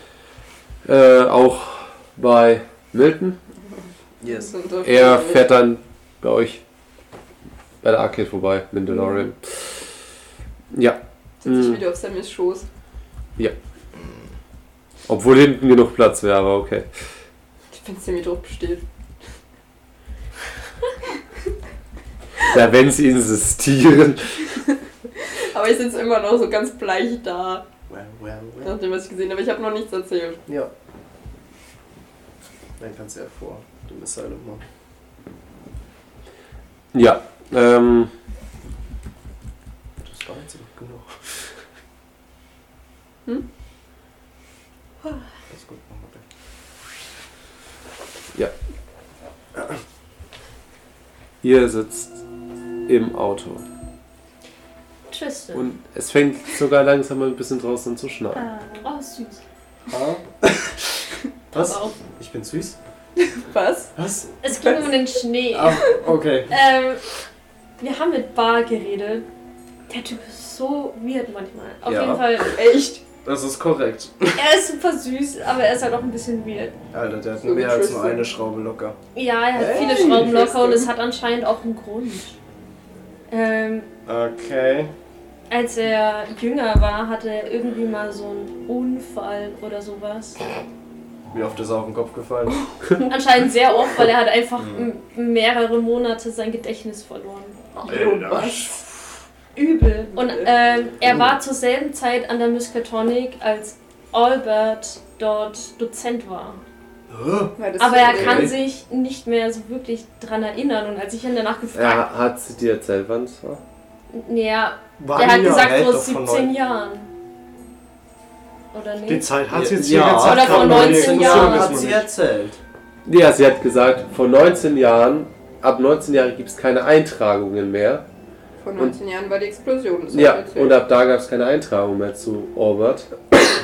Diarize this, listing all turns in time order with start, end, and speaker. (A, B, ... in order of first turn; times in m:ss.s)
0:00.8-0:03.4 A
0:04.2-0:04.5 B
0:04.2-0:05.5 C
0:04.8-0:06.6 A
0:07.8-0:09.7 A
0:10.7-0:11.8 A
0:11.4-0:12.6 C
0:15.1-0:16.9 A
0:17.7-0:18.8 C
0:22.4-0:24.4 A
0:25.2-0:27.6 C
0:27.9-0:28.7 B
0:28.6-0:30.4 C
0:32.8-0:34.6 B
0:36.9-0:38.1 A
0:40.0-0:41.3 B
0:45.5-0:46.2 B
0:51.4-0:52.2 A
0:52.9-0:53.6 A
0:55.1-0:55.6 D
0:55.5-0:58.4 A
0:58.4-0:58.8 C
0:58.8-0:59.4 D
0:59.9-1:02.8 B
1:01.5-1:02.0 D
1:03.2-1:03.9 C
1:04.0-1:04.7 B
1:04.4-1:07.0 D
1:05.5-1:06.5 B
1:07.8-1:09.3 D
1:09.9-1:12.6 D
1:11.8-1:12.2 B
1:12.5-1:13.0 C
1:13.2-1:14.4 B
1:14.4-1:16.7 D
1:16.9-1:19.0 B
1:17.4-1:18.3 C
1:19.1-1:22.4 D
1:19.5-1:20.3 B
1:19.7-1:20.9 C
1:23.3-1:23.9 D
1:24.0-1:24.9 B
1:25.5-1:30.4 D
1:31.3-1:32.6 B
1:33.0-1:37.6 D
1:34.6-1:34.9 B
1:37.8-1:38.7 C
1:37.8-1:38.9 B
1:39.6-1:46.6 D
1:40.1-1:40.5 C
1:47.1-1:48.6 B
1:47.6-1:48.6 C
1:47.8-1:52.0 D
1:51.7-1:53.6 A
1:54.1-1:57.1 D
1:55.0-1:55.6 E
1:55.2-1:56.5 B
1:58.7-1:59.3 D
1:59.0-2:02.1 E
1:59.5-2:02.6 B
2:00.1-2:01.9 D
2:03.0-2:08.0 A
2:08.6-2:10.8 C
2:10.1-2:13.1 A